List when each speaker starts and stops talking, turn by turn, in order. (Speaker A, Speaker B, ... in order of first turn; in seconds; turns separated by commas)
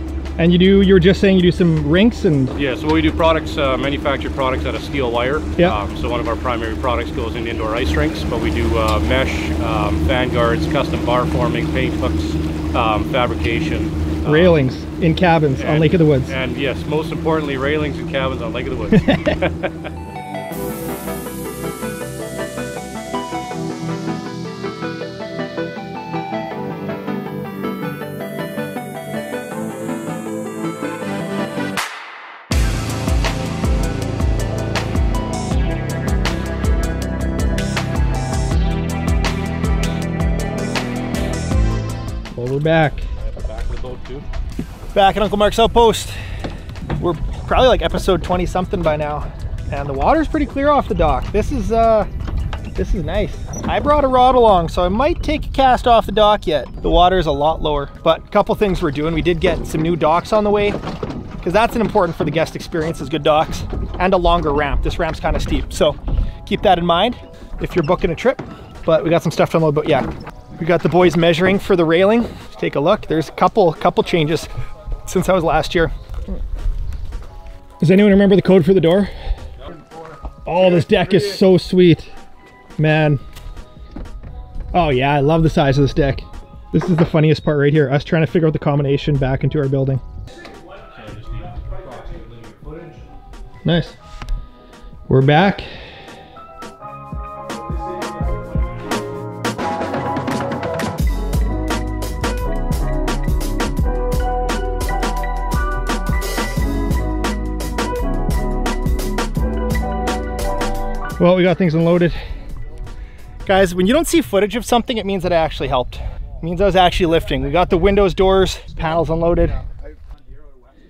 Speaker A: 0.4-2.5, Speaker B: 2.6-14.6, Speaker A: 14.2-16.4, Speaker B: 15.6-19.9, Speaker A: 18.9-19.4, Speaker A: 42.3-43.0, Speaker B: 43.2-44.3, Speaker A: 44.9-46.2, Speaker A: 47.0-52.1, Speaker A: 52.8-60.8, Speaker A: 61.4-70.1, Speaker A: 70.6-74.5, Speaker A: 75.1-75.9, Speaker A: 77.8-79.1, Speaker A: 80.5-82.1, Speaker A: 82.8-83.2, Speaker A: 84.7-90.0, Speaker B: 90.9-92.9, Speaker A: 93.6-94.0, Speaker A: 95.1-95.7, Speaker A: 111.2-112.2, Speaker A: 113.5-119.6